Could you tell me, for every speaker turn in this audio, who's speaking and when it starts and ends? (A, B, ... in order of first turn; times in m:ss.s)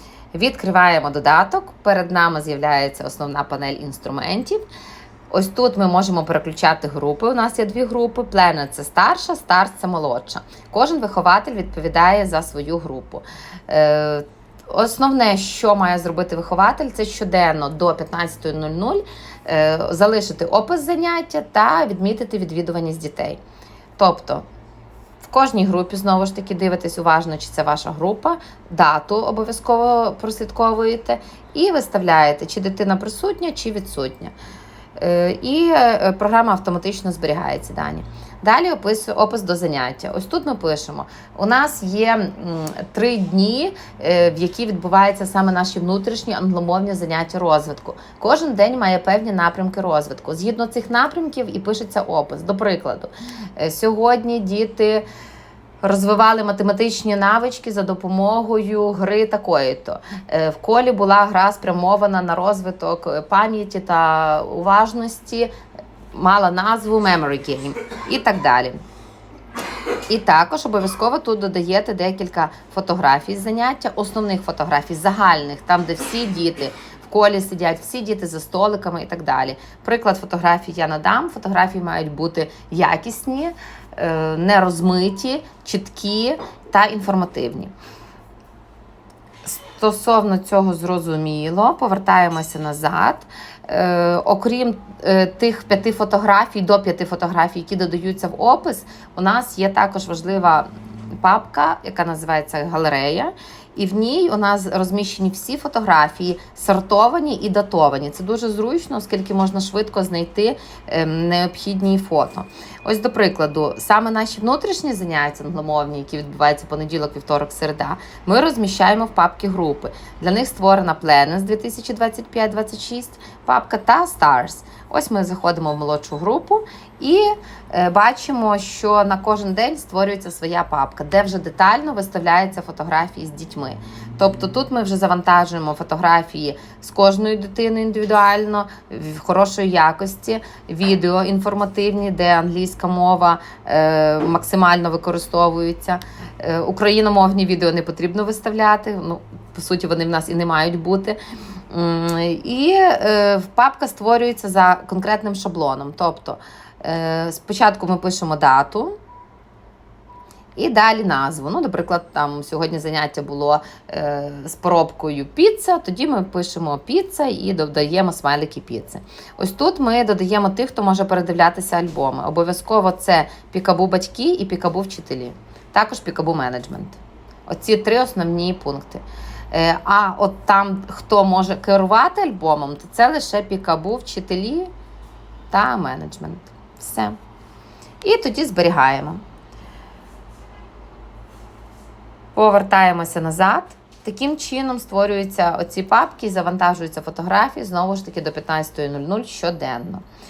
0:00.3-0:04.6 A
0:05.3-0:23.4 A
0:24.0-0:24.4 A
0:25.2-0:34.3 A
0:35.0-0:55.0 A
0:55.8-1:05.5 A
1:06.1-1:08.8 A
1:10.1-1:27.7 A
1:29.4-1:40.7 A
1:41.2-2:31.2 A
2:31.7-2:39.0 A
2:40.6-3:04.7 A
3:05.5-3:07.2 A
3:08.0-3:09.2 A
3:12.3-3:20.0 A